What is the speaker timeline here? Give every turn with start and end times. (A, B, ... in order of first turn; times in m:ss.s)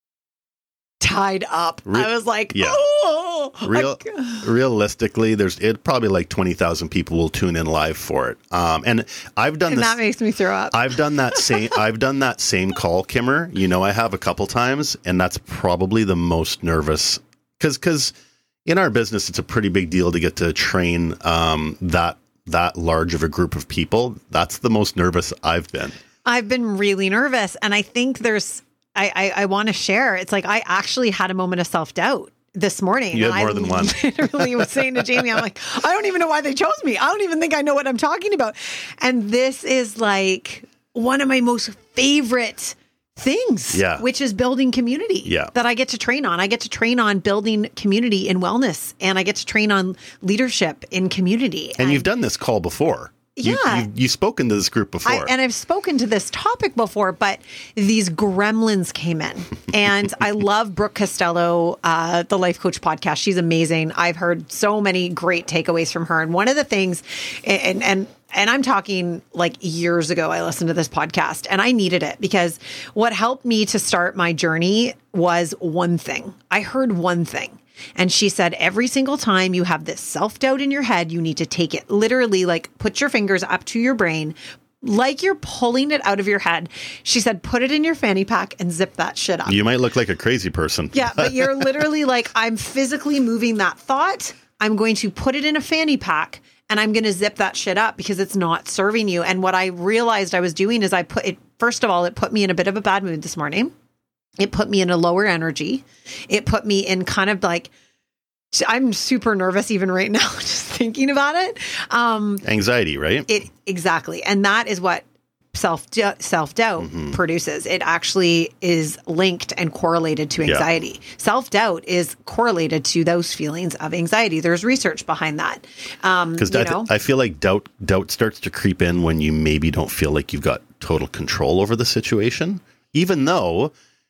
0:01.0-0:04.4 A
0:01.9-0:02.8 B
0:03.6-0:10.0 B
0:09.7-0:11.5 A
0:10.7-0:18.1 B
0:18.6-0:26.0 B
0:26.2-0:52.1 A
0:33.1-0:34.9 B
0:43.7-0:44.0 B
0:45.2-0:45.5 B
0:51.8-0:55.3 B
0:53.4-0:53.9 A
0:55.0-1:29.6 A
1:29.5-1:31.8 B
1:30.9-1:43.7 A
1:44.4-1:47.7 A
1:48.5-1:52.5 A
1:52.4-1:53.3 B
1:53.3-2:06.9 A
1:56.8-1:57.2 B
2:06.4-2:13.7 B